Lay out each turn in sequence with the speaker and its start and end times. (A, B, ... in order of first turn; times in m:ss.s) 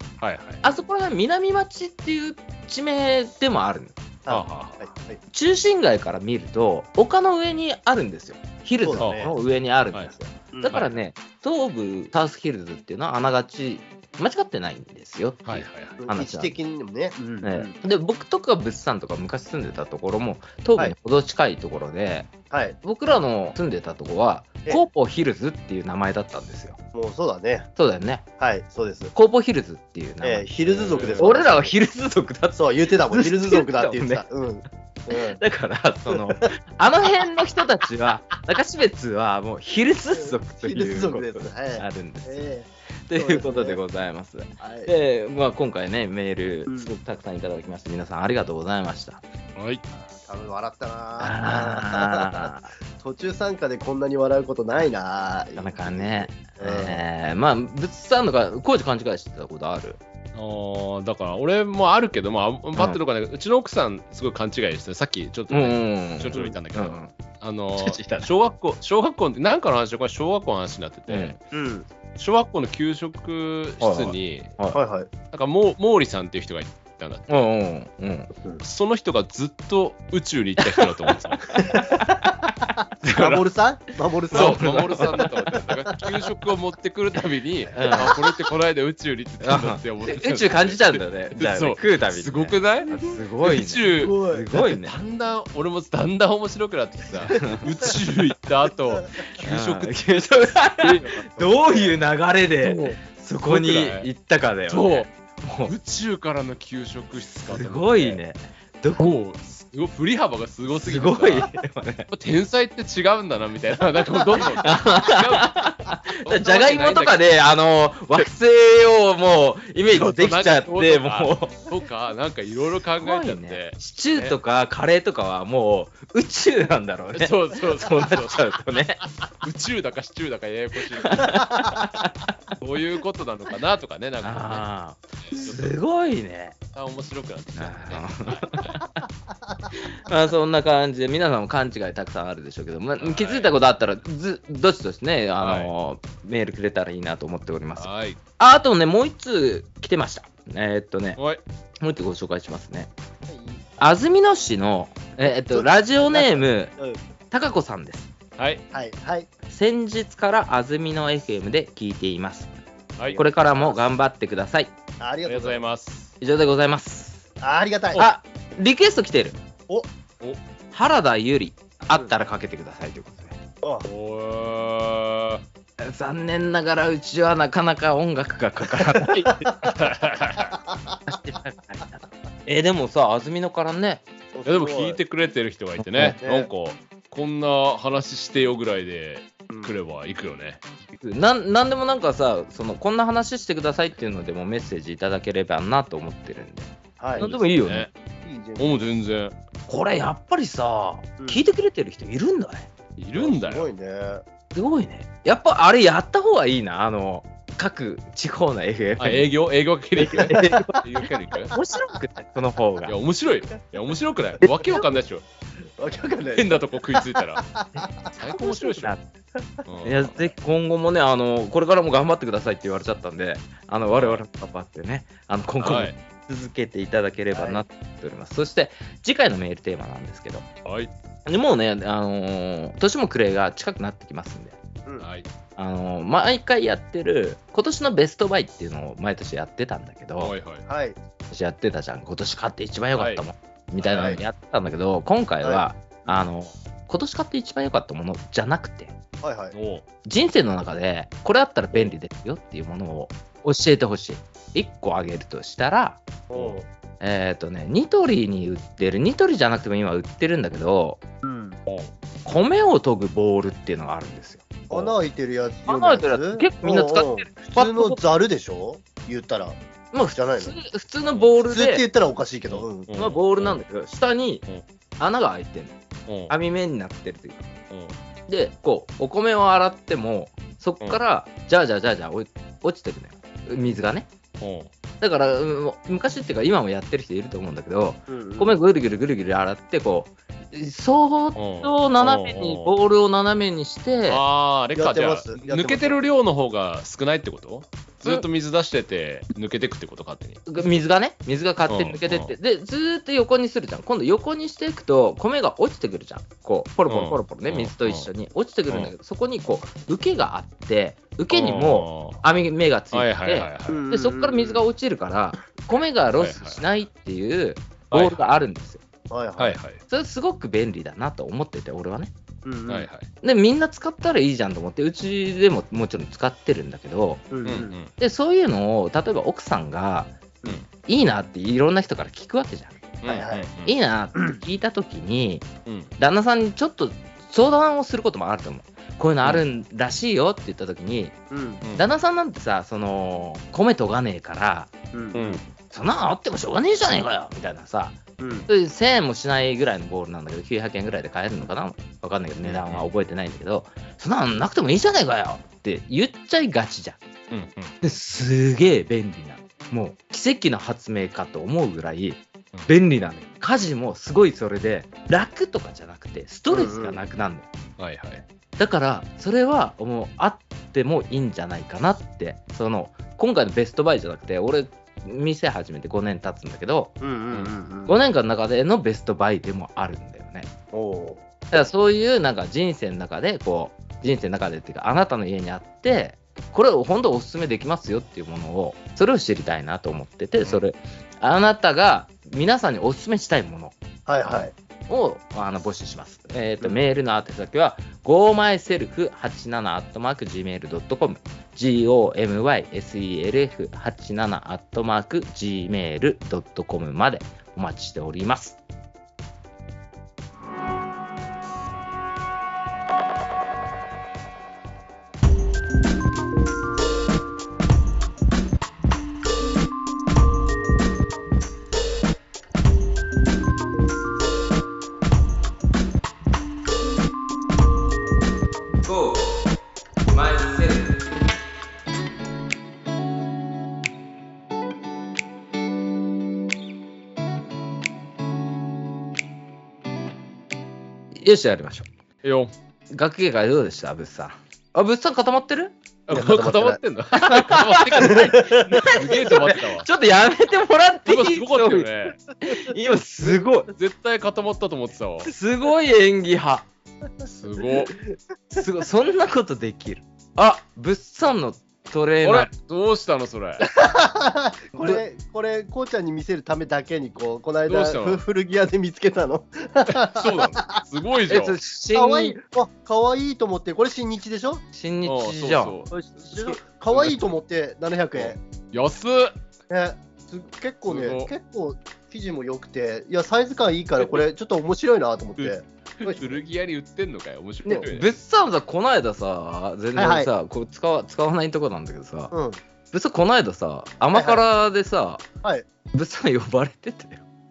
0:00.2-0:00.6 A
0:00.6-0:04.0 B
0:04.2-0:05.2 C
0:04.3-0:04.8 A
0:05.3-0:16.6 B
0:08.8-0:09.4 C
0:09.0-0:09.3 A
0:10.5-0:10.8 C
0:10.7-0:11.0 A
0:15.4-0:16.0 A
0:16.0-0:17.7 C
0:17.4-0:26.8 B
0:22.5-0:22.8 C
0:26.9-0:27.7 C
0:27.8-0:28.2 B
0:28.4-0:29.1 C
0:29.1-0:30.5 B
0:30.2-0:31.7 C
0:30.6-0:31.4 A
0:31.1-0:34.2 B
0:32.6-0:35.4 C
0:35.1-0:42.4 B
0:36.1-0:36.5 C
0:40.1-0:43.8 C
0:43.1-0:49.2 B
0:44.6-0:44.9 C
0:49.6-0:49.8 A
0:50.2-0:57.1 C
0:51.2-0:52.7 B
0:55.6-1:00.0 B
1:00.3-1:11.4 A
1:05.5-1:07.1 B
1:07.8-1:08.3 B
1:11.1-1:11.4 B
1:11.5-1:11.9 C
1:12.2-1:14.6 A
1:13.8-1:14.8 B
1:14.7-1:15.1 C
1:15.3-1:17.3 A
1:17.3-1:18.3 B
1:18.6-1:21.6 A
1:21.5-1:23.2 B
1:21.5-1:22.3 C
1:23.0-1:26.1 C
1:23.2-1:23.4 A
1:24.3-1:25.6 B
1:24.3-1:41.7 A
1:27.7-1:28.2 B
1:27.8-1:28.2 C
1:29.4-1:35.0 B
1:33.8-1:34.5 C
1:37.3-1:37.9 B
1:39.3-1:45.7 B
1:41.7-1:41.9 C
1:42.6-1:44.1 A
1:44.7-1:45.1 A
1:45.7-1:48.2 A
1:47.5-1:49.2 B
1:49.0-1:51.5 A
1:50.7-1:52.1 B
1:52.1-1:57.2 A
1:54.4-2:01.6 B
1:59.9-2:04.4 A
2:03.0-2:09.0 B
2:07.1-2:08.6 A
2:09.4-2:11.5 A
2:11.0-2:12.4 B
2:12.6-2:14.6 A
2:14.2-2:16.6 B
2:15.2-2:15.8 A
2:16.7-2:18.8 A
2:17.6-2:19.0 B
2:19.7-2:31.2 B
2:23.0-2:23.6 A
2:25.4-2:25.7 A
2:27.8-2:28.2 A
2:31.2-2:31.4 A
2:31.8-2:32.9 B
2:33.3-2:33.6 C
2:33.8-2:36.7 B
2:35.5-2:37.0 C
2:37.3-2:38.1 B
2:38.4-2:38.6 A
2:38.7-2:39.3 C
2:39.5-2:42.5 B
2:43.1-2:43.9 C
2:43.2-2:44.7 B
2:45.0-2:45.6 C
2:45.2-2:46.2 A
2:46.2-2:47.2 B
2:47.4-2:48.1 C
2:48.0-2:49.4 B
2:50.7-2:53.4 B
2:53.6-2:53.9 C
2:53.8-2:55.4 A
2:55.8-2:59.7 B
2:59.0-2:59.8 C
2:59.7-3:00.6 A
3:00.7-3:01.0 C
3:01.1-3:04.0 B
3:04.3-3:05.0 C
3:04.5-3:10.6 A
3:05.9-3:06.2 B
3:06.2-3:06.5 C
3:09.5-3:09.8 C
3:10.9-3:17.9 B
3:17.0-3:17.3 C
3:17.2-3:17.9 A
3:18.2-3:18.9 C
3:18.6-3:19.4 A
3:19.7-3:22.7 B
3:23.0-3:23.7 A
3:23.2-3:24.2 C
3:24.5-3:29.3 B
3:29.0-3:31.5 A
3:30.0-3:30.8 B
3:30.3-3:30.8 C
3:31.5-3:33.0 B
3:31.5-3:32.0 C
3:32.9-3:35.2 A
3:34.4-3:34.9 C
3:35.8-3:38.1 C
3:36.3-3:37.5 A
3:37.8-3:39.0 B
3:38.1-3:39.0 A
3:39.7-3:40.3 A
3:39.8-3:50.5 B
3:43.9-3:44.2 A
3:45.6-3:46.0 A
3:47.3-3:47.6 C
3:50.6-3:50.9 A
3:51.3-3:54.6 B
3:55.0-3:55.3 A
3:55.6-4:00.3 B
4:00.2-4:00.6 A
4:00.7-4:01.0 C
4:01.3-4:09.0 B
4:03.0-4:03.2 A
4:03.8-4:04.3 A
4:03.9-4:04.2 C
4:09.2-4:09.6 C
4:09.5-4:09.8 A
4:10.0-4:16.0 B
4:16.3-4:16.7 C
4:17.0-4:21.0 B
4:21.2-4:21.6 C
4:21.7-4:21.9 A
4:22.2-4:24.6 B
4:24.7-4:29.6 C
4:25.7-4:28.0 B
4:29.9-4:31.8 B
4:30.1-4:30.5 C
4:31.5-4:32.9 C
4:32.5-4:33.6 A
4:33.0-4:34.4 B
4:35.0-4:35.8 B
4:36.1-4:36.4 A
4:36.3-4:37.5 B
4:37.7-4:38.0 A
4:38.3-4:44.1 B
4:44.4-4:44.7 A
4:45.0-4:54.2 B
4:48.1-4:48.6 C
4:51.4-4:52.7 A
4:54.1-5:00.4 A
4:54.8-4:56.0 C
5:00.5-5:18.8 B
5:01.7-5:02.3 A
5:06.9-5:08.1 A
5:11.3-5:12.2 A
5:12.9-5:13.9 A
5:13.7-5:14.6 C
5:16.2-5:16.6 A
5:17.9-5:18.2 A
5:19.1-5:19.6 C
5:19.4-5:19.8 A
5:19.9-5:22.1 B
5:22.4-5:22.9 C
5:22.7-5:23.1 A
5:23.2-5:27.3 B
5:27.3-5:27.7 C
5:27.4-5:27.9 A
5:28.0-5:30.2 B
5:30.9-5:32.8 B
5:33.0-5:33.8 A
5:33.1-5:33.5 C
5:33.6-5:35.5 B
5:34.2-5:34.4 C
5:35.7-5:35.9 A
5:36.0-5:41.2 B
5:41.3-5:41.6 C
5:41.8-5:44.7 B
5:44.9-5:45.4 C
5:45.1-5:45.4 A
5:45.7-5:57.0 B
5:48.2-5:48.5 C
5:52.4-5:52.9 A
5:57.3-5:57.7 A
5:57.8-6:07.5 B
6:06.5-6:07.0 C
6:07.8-6:08.2 A
6:08.6-6:16.9 B
6:17.0-6:18.0 C
6:17.9-6:20.5 B
6:20.7-6:21.2 C
6:21.5-6:48.6 B
6:34.1-6:34.5 C
7:08.8-7:09.4 B
7:10.0-7:11.0 B
7:21.2-7:21.9 B
7:22.2-7:22.5 A
7:22.9-7:25.8 B
7:26.1-7:29.9 A
7:26.1-7:26.8 C
7:27.1-7:33.7 B
7:28.0-7:29.5 C
7:31.1-7:32.2 A
7:33.7-7:35.3 A
7:35.2-7:36.7 B
7:37.2-7:37.9 A
7:38.5-7:42.5 B
7:42.2-7:43.7 A
7:43.7-7:50.8 C
7:47.7-7:48.2 A
7:49.9-7:51.6 A
7:51.3-7:52.4 B
7:51.9-7:54.6 C
7:54.7-7:55.8 B
7:55.0-7:57.3 A
7:55.9-7:58.4 C
7:58.2-7:59.4 A
7:59.7-8:06.4 C
8:00.9-8:01.3 A
8:04.0-8:04.2 A
8:05.4-8:08.1 A
8:07.7-8:12.3 B
8:10.0-8:10.3 C
8:12.3-8:12.6 C
8:12.9-8:15.2 B
8:14.1-8:14.4 C
8:15.9-8:17.2 B